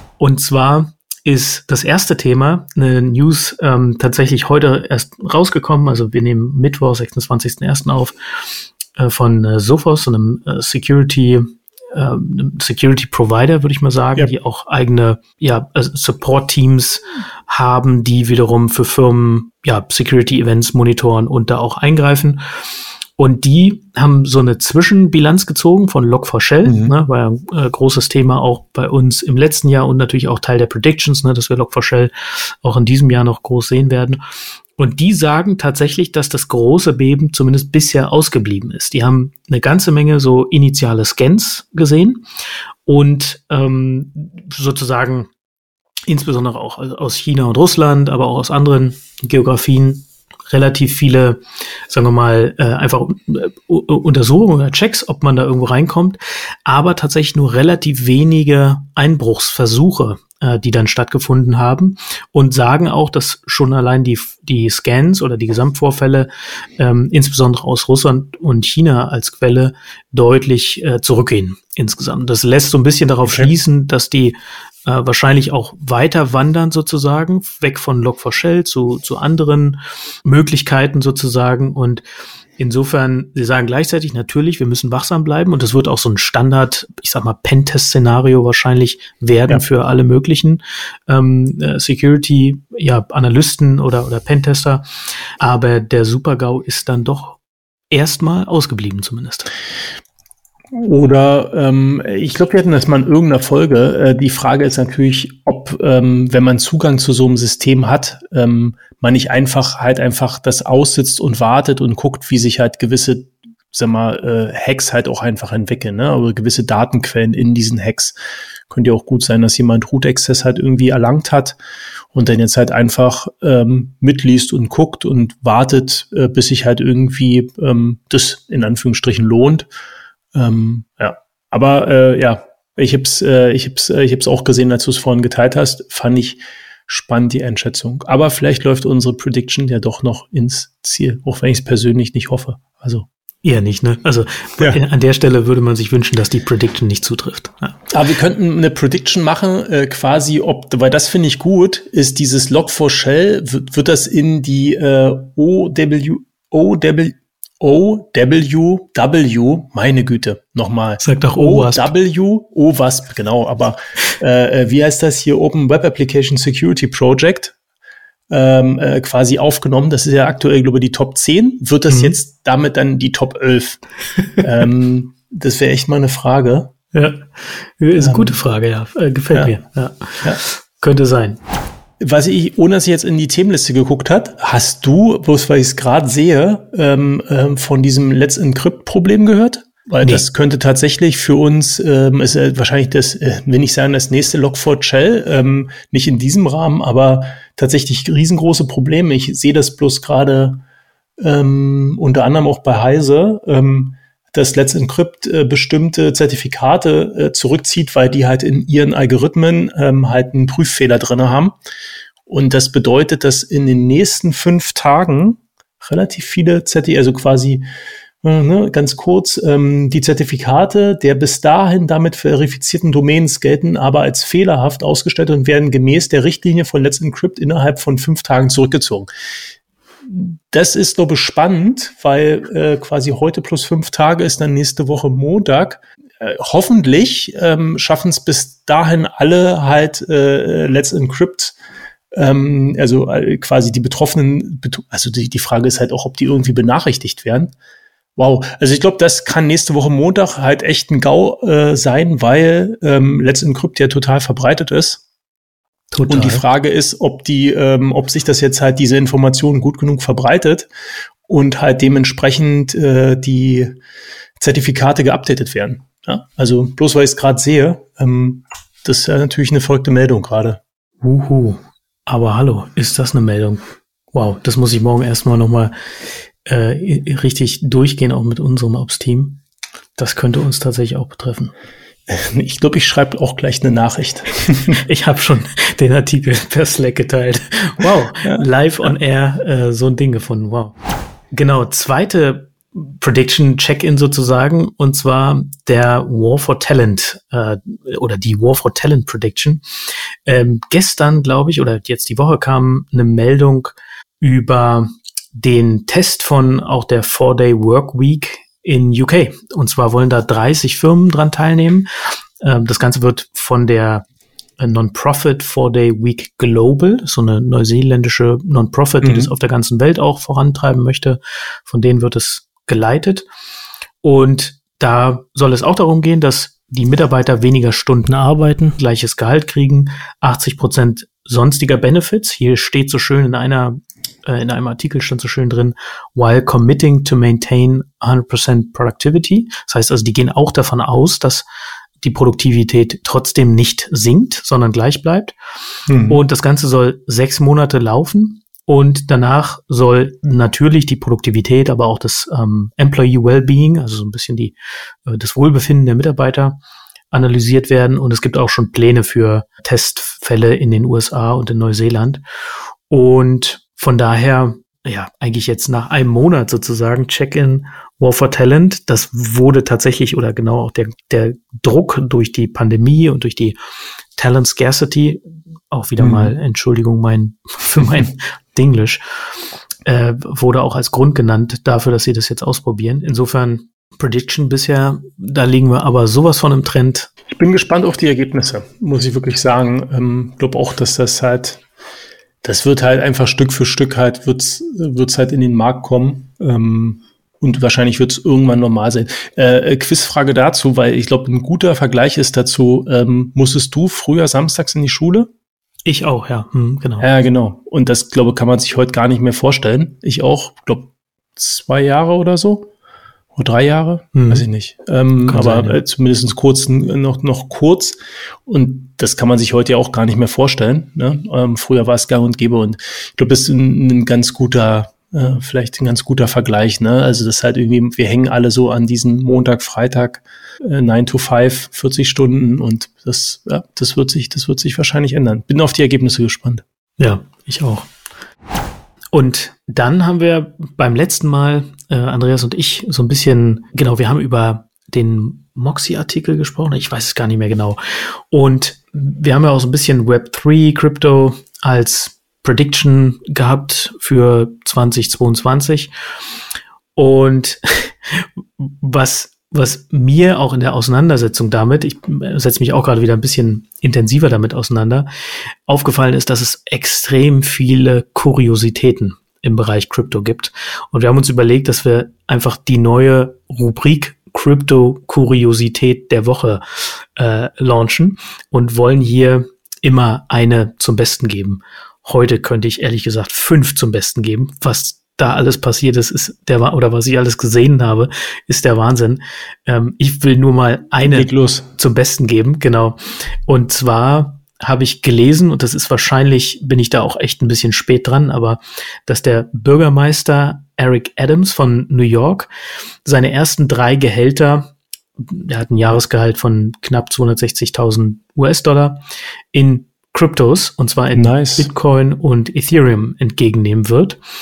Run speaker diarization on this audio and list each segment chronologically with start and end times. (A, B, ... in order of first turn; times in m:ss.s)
0:00.2-0:08.1 A
0:09.0-0:22.4 A
0:23.2-0:34.2 A
0:26.6-0:26.9 B
0:34.8-0:42.2 A
0:42.8-0:45.3 A
0:46.1-1:22.0 A
1:13.2-1:13.5 B
1:22.6-1:34.8 A
1:35.4-1:37.4 A
1:37.9-1:39.5 A
1:40.7-1:58.2 B
1:58.7-2:01.6 B
2:02.1-2:09.7 B
2:10.3-2:23.1 B
2:23.4-2:27.9 A
2:27.9-2:47.5 B
2:41.0-2:41.9 A
2:48.3-2:53.8 B
2:51.9-2:52.2 A
2:54.4-2:56.7 B
2:56.9-2:57.2 A
2:57.8-3:01.4 A
2:58.0-2:58.4 B
3:02.0-3:20.6 B
3:21.2-3:31.6 B
3:32.3-3:37.6 B
3:38.2-3:49.1 B
3:50.1-4:01.6 B
4:02.1-4:07.5 B
4:08.2-4:15.0 B
4:15.9-4:16.4 A
4:16.1-4:20.7 B
4:21.3-4:23.8 B
4:24.4-4:30.6 B
4:31.0-4:33.6 A
4:34.1-4:35.7 A
4:36.4-4:39.4 A
4:40.0-4:41.5 A
4:42.1-4:44.8 B
4:44.7-4:50.8 A
4:51.3-4:59.6 A
5:00.2-5:11.9 A
5:12.4-5:14.0 A
5:14.6-5:23.2 A
5:19.0-5:19.3 B
5:24.0-5:41.4 A
5:28.1-5:28.7 B
5:42.0-5:45.3 A
5:45.9-5:46.2 B
5:46.1-5:54.5 A
5:55.1-5:56.6 A
5:57.1-6:02.2 A
6:02.9-6:13.6 A
6:14.2-6:19.0 A
6:16.0-6:16.3 B
6:19.8-6:27.1 A
6:27.3-6:31.6 B
6:32.4-6:45.3 B
6:45.8-6:47.0 A
6:47.0-6:52.7 B
6:53.3-7:16.6 B
6:54.1-6:54.4 A
6:55.3-6:55.8 A
7:17.0-7:17.9 A
7:19.1-7:35.9 A
7:37.0-7:45.1 A
7:45.7-8:22.5 A
8:11.0-8:11.7 B
8:23.0-8:29.0 A
8:29.5-8:34.2 A
8:31.1-8:31.7 B